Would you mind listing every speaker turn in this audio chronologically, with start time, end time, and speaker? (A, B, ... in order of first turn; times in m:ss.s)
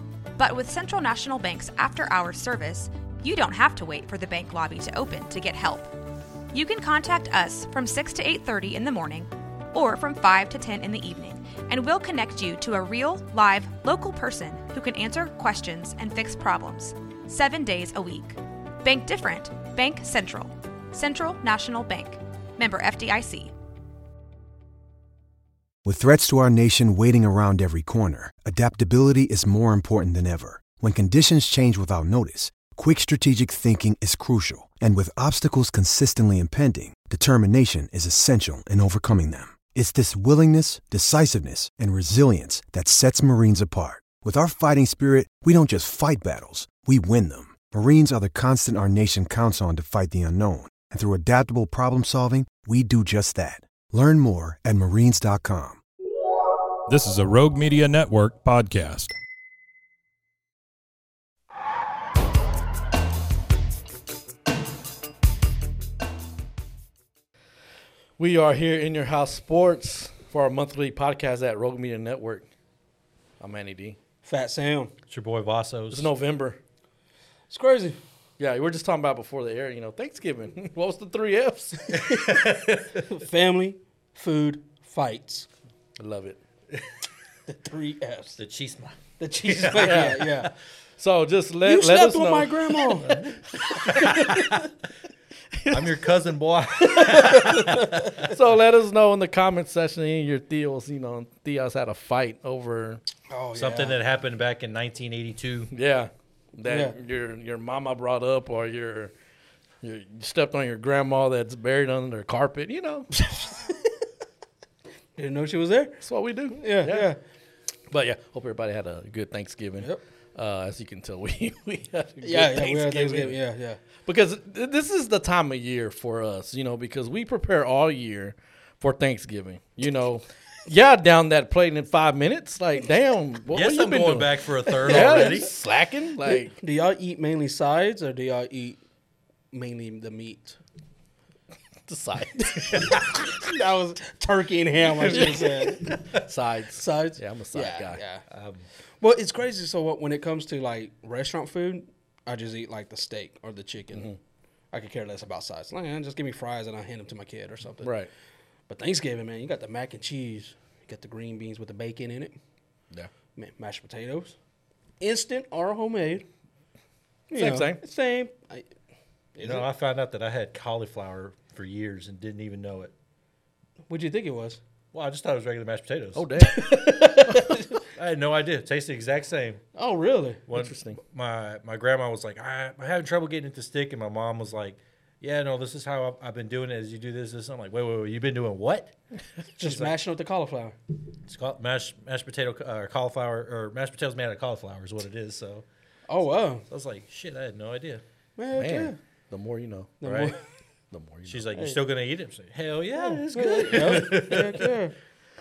0:00.4-0:05.9 A
0:06.5-0:23.5 A
0:25.8-0:55.8 B
0:56.9-0:59.2 C
1:08.2-1:12.5 D
1:13.4-1:14.0 D
1:14.2-1:14.9 E
1:15.1-1:16.1 F
1:15.9-1:16.6 D
1:17.5-1:18.0 E
1:18.4-1:22.1 D
1:22.1-1:22.7 F
1:22.1-1:22.5 E
1:23.0-1:25.5 E
1:26.0-1:26.4 D
1:27.5-1:28.4 E
1:28.4-1:30.2 F
1:29.2-1:30.5 E
1:29.8-1:30.2 D
1:31.0-1:34.5 D
1:31.6-1:34.6 E
1:33.9-1:34.4 F
1:35.5-1:35.9 D
1:35.7-1:38.4 F
1:36.8-1:37.5 D
1:37.5-1:38.0 E
1:38.3-1:43.0 D
1:43.3-1:44.0 E
1:43.5-1:45.7 F
1:45.7-1:49.1 D
1:46.7-1:47.0 E
1:49.8-1:53.1 D
1:53.2-1:53.9 E
1:55.2-1:57.2 E
1:56.0-1:57.1 D
1:57.9-2:03.4 D
2:02.2-2:03.8 E
2:04.0-2:16.6 D
2:13.5-2:15.5 F
2:14.8-2:15.5 E
2:16.2-2:18.8 E
2:19.5-2:20.6 E
2:21.9-2:23.0 D
2:22.4-2:26.2 E
2:24.9-2:28.0 D
2:26.7-2:28.2 E
2:28.3-2:28.7 F
2:29.0-2:34.1 E
2:33.9-2:34.2 D
2:34.7-2:38.0 E
2:37.8-2:38.1 D
2:38.7-2:42.4 E
2:43.4-2:44.4 E
2:45.0-2:46.3 E
2:47.3-2:48.6 E
2:47.3-2:47.8 D
2:49.4-2:49.7 E
2:49.4-2:52.9 F
2:53.9-2:54.6 E
2:54.9-2:56.7 F
2:56.2-2:57.6 D
2:57.2-2:59.6 F
2:59.8-3:00.5 E
3:00.5-3:08.9 F
3:00.5-3:01.0 D
3:09.6-3:10.8 E
3:09.6-3:09.9 F
3:11.3-3:15.6 F
3:16.1-3:16.7 E
3:16.7-3:18.0 F
3:18.4-3:19.0 E
3:18.5-3:20.0 D
3:20.0-3:20.4 E
3:20.0-3:20.4 F
3:20.9-3:21.5 D
3:21.3-3:24.7 F
3:21.5-3:21.8 E
3:22.9-3:25.0 E
3:23.6-3:24.5 D